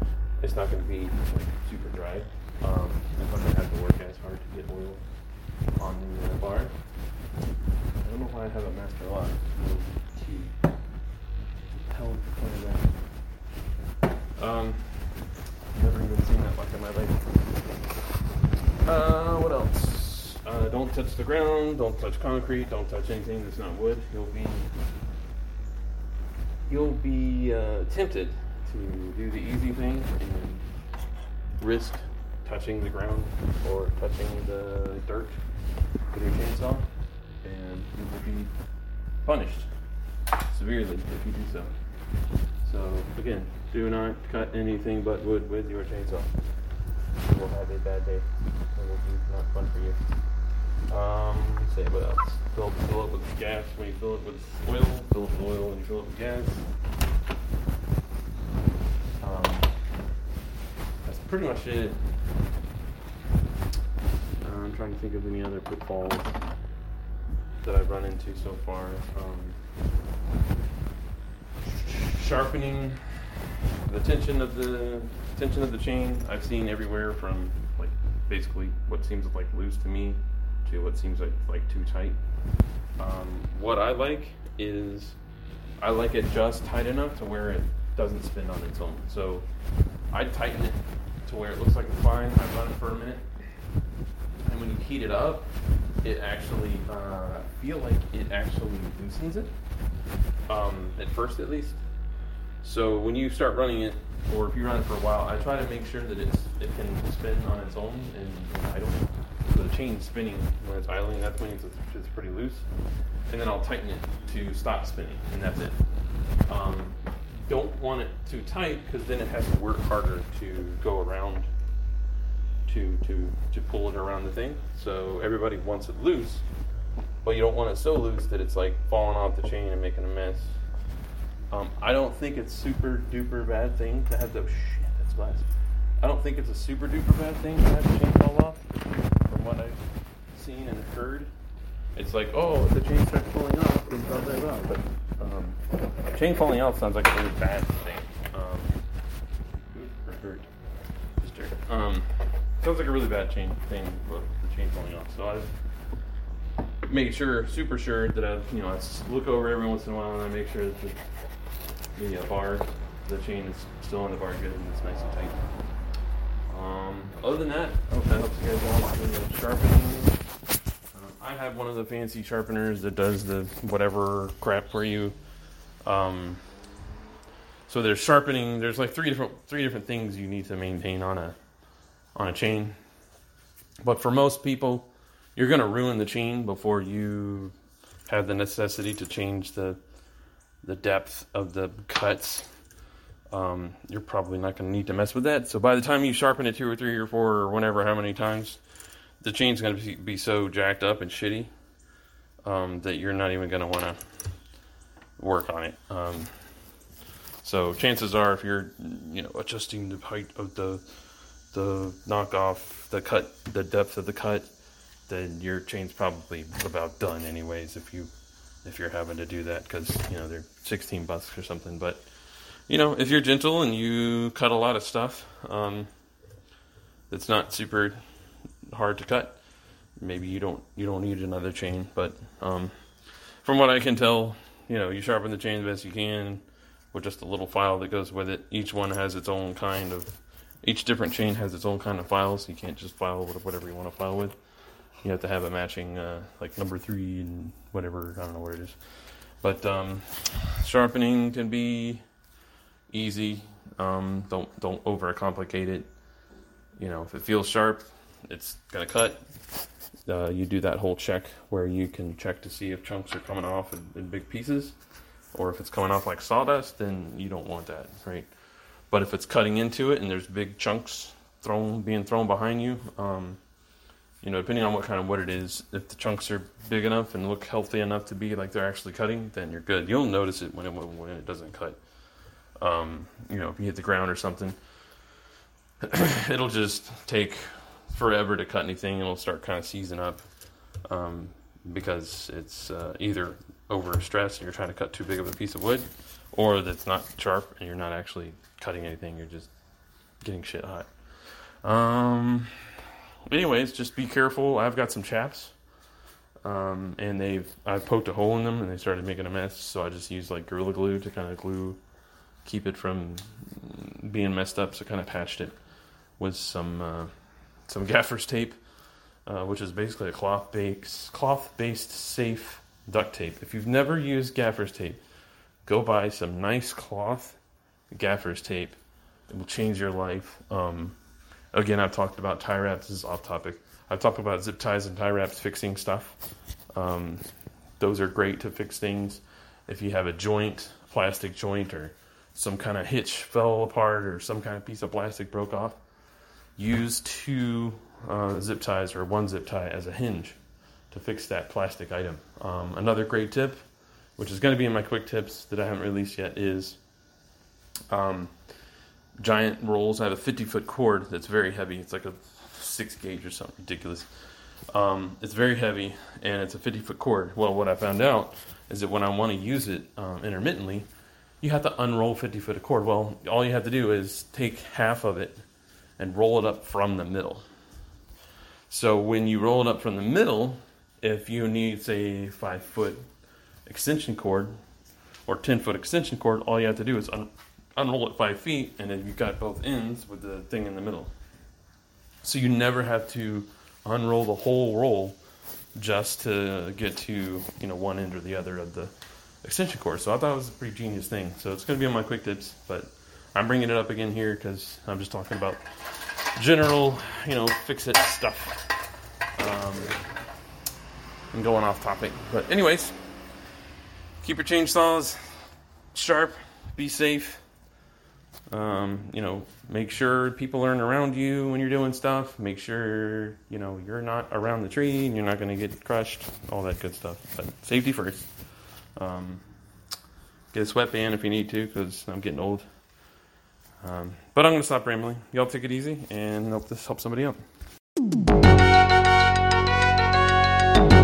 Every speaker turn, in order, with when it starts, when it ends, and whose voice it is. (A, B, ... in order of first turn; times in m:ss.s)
0:00.4-0:05.0 A
0:05.7-0:06.7 A
0:08.0-0:10.6 A
0:11.9-0:12.9 A
0:14.4-0:15.2 A
0:15.7-0:17.3 A
0:18.8-0:24.7 A
0:26.6-0:30.7 A
0:31.6-0:35.4 A
0:36.1-0:36.9 A
0:37.4-0:38.5 A
0:39.2-0:39.7 A
0:40.5-0:41.7 A
0:42.6-0:46.4 A
0:47.2-0:50.0 A
0:50.9-0:56.7 A
0:59.2-0:59.7 A
1:01.0-1:02.0 A
1:04.4-1:06.4 A
1:07.6-1:09.6 A
1:11.6-1:13.2 A
1:13.8-1:22.2 A
1:23.0-1:25.2 A
1:25.8-1:29.5 A
1:30.1-1:33.2 A
1:34.4-1:39.5 A
1:40.5-1:41.8 A
1:42.6-1:52.7 A
1:53.3-1:55.8 A
1:56.5-2:01.5 A
2:02.6-2:06.4 A
2:07.2-2:10.6 A
2:11.5-2:15.5 A
2:16.0-2:21.3 A
2:21.9-2:28.8 A
2:29.7-2:30.5 A
2:31.2-2:35.5 A
2:36.9-2:41.0 A
2:41.9-2:45.4 A
2:46.5-2:50.2 A
2:50.9-2:55.2 A
2:55.8-2:56.4 A
2:57.7-3:01.3 A
3:02.1-3:02.8 A
3:03.8-3:07.5 A
3:08.1-3:09.8 A
3:10.6-3:12.5 A
3:13.3-3:18.6 A
3:19.2-3:21.5 A
3:22.4-3:24.2 A
3:25.2-3:26.6 A
3:27.4-3:31.0 A
3:31.5-3:34.5 A
3:35.1-3:38.1 A
3:38.6-3:42.1 A
3:42.7-3:45.9 A
3:47.1-3:48.0 A
3:48.6-3:49.4 A
3:50.0-3:52.7 A
3:53.4-4:04.4 A
4:05.0-4:08.8 A
4:09.4-4:12.0 A
4:12.9-4:15.9 A
4:16.8-4:19.2 A
4:20.0-4:24.8 A
4:25.3-4:28.3 A
4:28.9-4:33.4 A
4:34.2-4:41.8 A
4:42.6-4:44.6 A
4:45.8-4:50.2 A
4:50.8-4:59.5 A
5:00.2-5:05.5 A
5:06.4-5:11.8 A
5:12.4-5:15.6 A
5:16.2-5:17.1 A
5:17.7-5:18.6 A
5:19.2-5:25.0 A
5:25.6-5:27.4 A
5:27.9-5:28.8 A
5:29.3-5:31.0 A
5:31.5-5:36.2 A
5:36.7-5:37.3 A
5:37.8-5:45.8 A
5:46.6-5:50.4 A
5:50.9-5:53.6 A
5:54.2-5:56.8 A
5:57.9-5:58.3 A
5:59.2-6:10.9 A
6:11.4-6:15.4 A
6:16.0-6:17.5 A
6:18.7-6:23.0 A
6:23.6-6:24.5 A
6:25.2-6:31.1 A
6:32.2-6:35.2 A
6:35.7-6:50.0 A
6:51.3-6:53.0 A
6:54.2-6:57.4 A
6:58.5-7:08.3 A
7:09.0-7:09.4 A
7:10.5-7:12.7 A
7:13.8-7:17.4 A